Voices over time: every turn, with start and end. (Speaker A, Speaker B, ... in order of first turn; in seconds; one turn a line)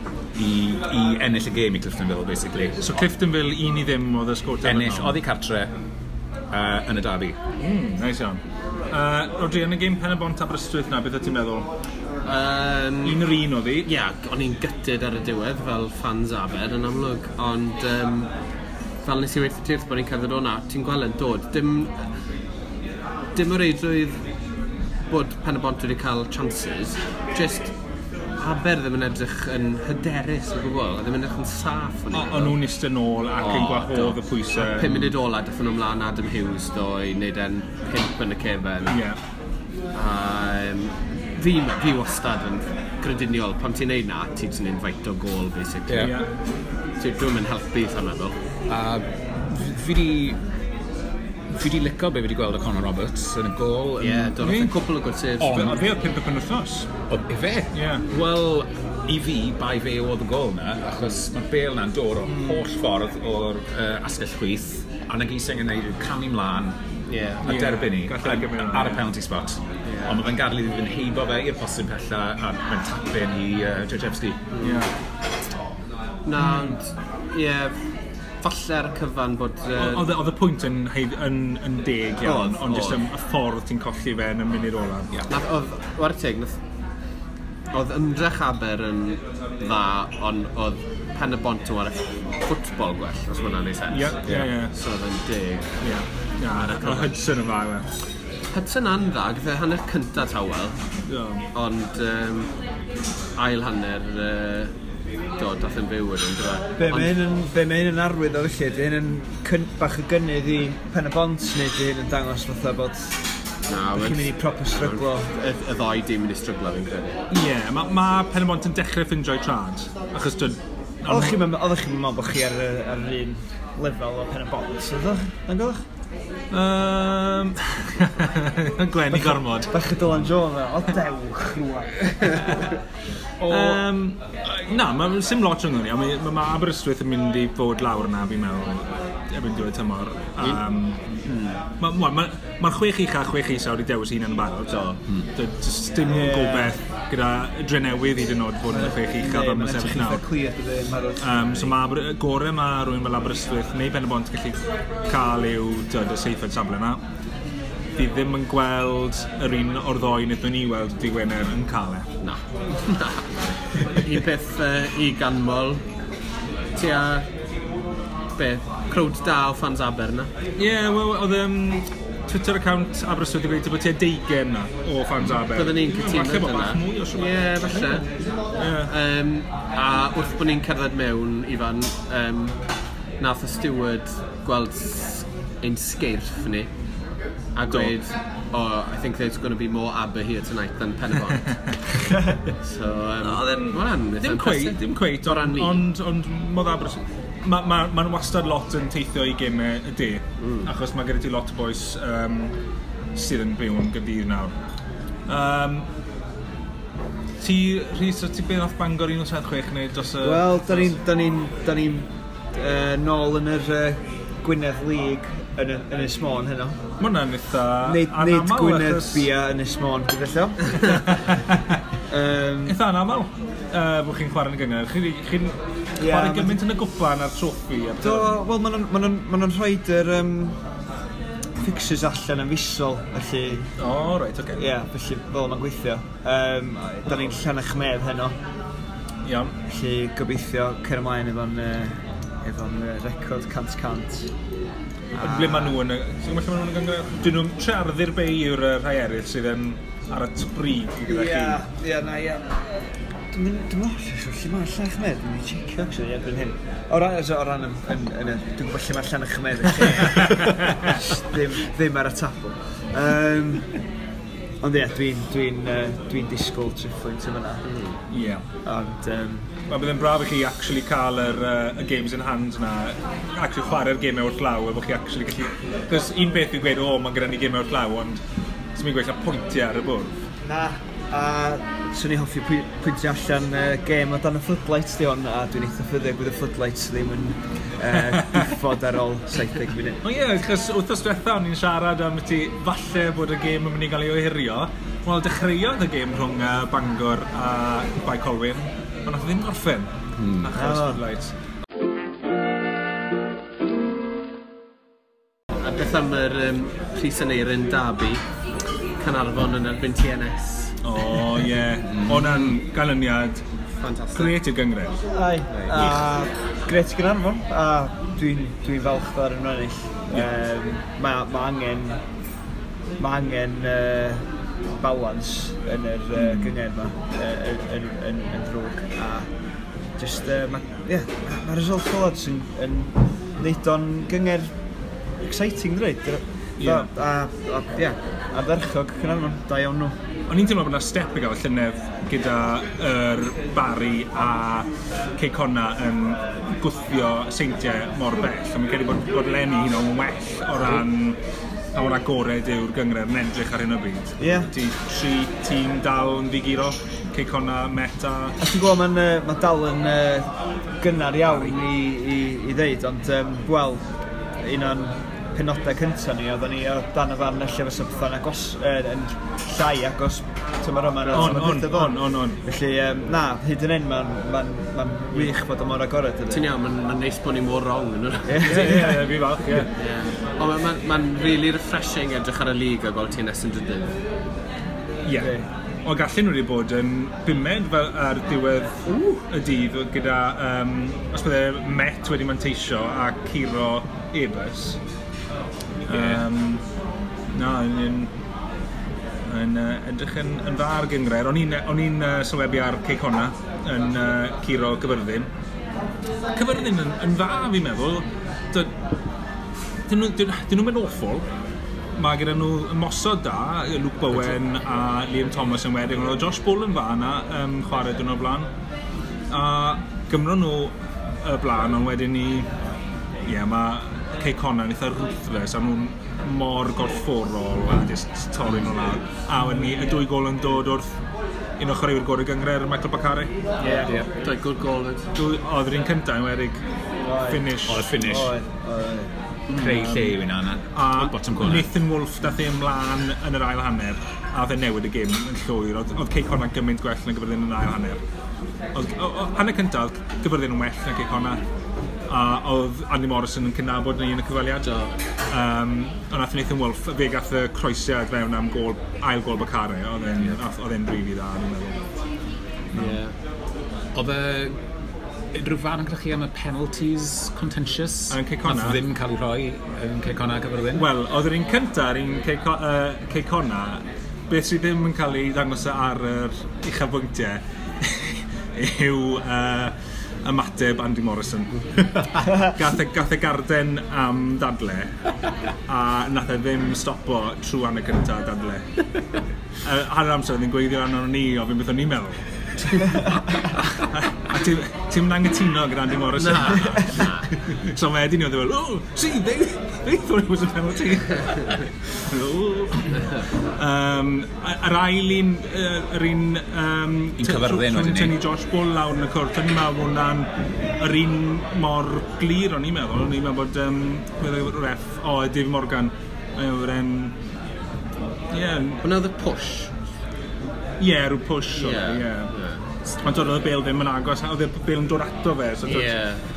Speaker A: 0.3-3.0
Speaker B: 2.8-5.2
Speaker A: 4.6-5.7
Speaker A: 6.5-7.4
Speaker B: 7.6-11.7
Speaker C: 12.2-13.3
Speaker B: 13.0-13.9
Speaker C: 13.8-18.3
Speaker C: 19.0-22.1
Speaker C: 23.4-24.2
Speaker C: 25.1-27.7
Speaker C: 28.4-32.6
Speaker B: 32.1-35.1
Speaker C: 33.4-39.0
Speaker B: 38.9-39.2
Speaker C: 39.9-46.4
Speaker A: 45.9-46.2
Speaker B: 46.0-46.3
Speaker C: 47.0-48.4
Speaker A: 48.7-50.4
Speaker A: 51.5-54.4
Speaker C: 54.0-55.8
Speaker B: 54.4-54.8
Speaker A: 55.4-55.9
Speaker B: 55.5-56.9
Speaker A: 57.1-66.8
Speaker B: 57.7-58.0
Speaker B: 62.2-62.7
Speaker C: 67.1-67.4
Speaker A: 67.4-74.5
Speaker B: 67.4-69.1
Speaker C: 69.9-70.2
Speaker C: 74.5-74.9
Speaker B: 74.6-74.9
Speaker C: 76.3-77.8
Speaker B: 76.4-76.8
Speaker C: 78.4-80.2
Speaker B: 79.8-85.2
Speaker C: 82.2-83.0
Speaker C: 85.3-86.6
Speaker C: 87.7-97.1
Speaker B: 93.9-94.7
Speaker B: 95.8-97.9
Speaker C: 98.5-100.8
Speaker B: 101.1-101.5
Speaker C: 101.5-102.5
Speaker C: 103.4-104.7
Speaker C: 105.4-107.1
Speaker D: 106.8-113.3
Speaker C: 113.7-117.2
Speaker D: 113.9-115.3
Speaker B: 117.3-121.4
Speaker D: 121.1-125.8
Speaker B: 126.5-129.8
Speaker D: 129.7-132.7
Speaker A: 133.4-133.8
Speaker B: 133.4-141.0
Speaker C: 141.2-141.6
Speaker B: 141.8-150.2
Speaker D: 146.1-146.8
Speaker D: 148.7-151.7
Speaker B: 151.2-157.0
Speaker B: 158.0-162.1
Speaker C: 162.2-165.8
Speaker C: 166.8-167.3
Speaker C: 168.4-170.3
Speaker B: 170.6-178.1
Speaker A: 175.2-175.4
Speaker C: 175.5-182.7
Speaker B: 178.6-178.9
Speaker C: 183.2-186.7
Speaker C: 187.6-195.8
Speaker B: 187.7-187.9
Speaker B: 191.5-191.8
Speaker B: 193.2-202.6
Speaker C: 200.4-200.7
Speaker B: 203.2-204.6
Speaker B: 205.3-205.9
Speaker B: 207.4-211.0
Speaker D: 210.2-216.8
Speaker B: 217.0-219.3
Speaker D: 217.8-221.0
Speaker B: 220.9-221.8
Speaker D: 222.1-222.8
Speaker B: 222.7-228.3
Speaker D: 226.0-226.6
Speaker D: 228.0-230.6
Speaker D: 231.6-233.7
Speaker B: 233.8-234.6
Speaker D: 234.6-238.4
Speaker B: 239.2-239.5
Speaker D: 239.7-244.3
Speaker D: 245.1-245.8
Speaker B: 245.2-251.6
Speaker D: 251.1-263.8
Speaker B: 260.4-260.8
Speaker D: 264.6-267.7
Speaker C: 267.6-268.0
Speaker B: 268.1-268.4
Speaker D: 268.6-269.5
Speaker B: 269.7-278.2
Speaker B: 278.8-280.1
Speaker D: 280.4-290.0
Speaker B: 288.1-288.4
Speaker B: 290.0-301.4
Speaker A: 300.2-300.5
Speaker D: 300.6-301.0
Speaker C: 305.6-308.2
Speaker C: 309.0-310.8
Speaker B: 310.8-313.4
Speaker A: 311.9-312.6
Speaker C: 313.8-314.4
Speaker B: 314.1-315.0
Speaker D: 315.1-322.0
Speaker C: 315.5-315.9
Speaker D: 323.0-329.4
Speaker D: 329.9-334.6
Speaker D: 335.2-340.0
Speaker B: 336.6-336.9
Speaker B: 340.3-351.2
Speaker A: 350.6-350.9
Speaker B: 351.7-358.4
Speaker D: 354.2-354.5
Speaker D: 358.4-376.4
Speaker B: 361.3-361.5
Speaker C: 371.0-371.4
Speaker B: 371.1-372.4
Speaker C: 376.3-378.9
Speaker D: 378.3-379.1
Speaker B: 378.4-379.7
Speaker C: 379.7-384.0
Speaker B: 385.0-394.8
Speaker D: 385.1-385.5
Speaker C: 388.9-389.2
Speaker B: 395.9-396.6
Speaker A: 395.9-396.2
Speaker B: 397.3-398.1
Speaker B: 399.3-405.3
Speaker B: 406.3-408.7
Speaker B: 409.9-411.3
Speaker B: 412.0-418.5
Speaker B: 419.3-422.5
Speaker B: 423.2-431.0
Speaker B: 431.6-434.0
Speaker C: 433.6-435.1
Speaker D: 433.6-434.0
Speaker B: 435.1-436.6
Speaker D: 437.0-439.1
Speaker B: 437.2-438.3
Speaker A: 437.7-438.3
Speaker A: 439.5-441.7
Speaker B: 439.5-440.2
Speaker B: 440.7-448.0
Speaker B: 448.7-451.4
Speaker B: 452.1-454.7
Speaker C: 454.6-454.9
Speaker B: 455.3-461.9
Speaker C: 462.7-463.1
Speaker A: 463.9-464.6
Speaker A: 465.3-470.9
Speaker B: 468.1-468.8
Speaker B: 470.8-485.0
Speaker B: 485.7-488.8
Speaker B: 489.6-517.2
Speaker C: 496.2-497.4
Speaker C: 502.9-503.2
Speaker A: 507.2-508.2
Speaker B: 518.3-518.9
Speaker C: 518.8-519.7
Speaker B: 520.8-522.5
Speaker C: 521.5-522.9
Speaker B: 523.0-526.0
Speaker C: 525.6-526.2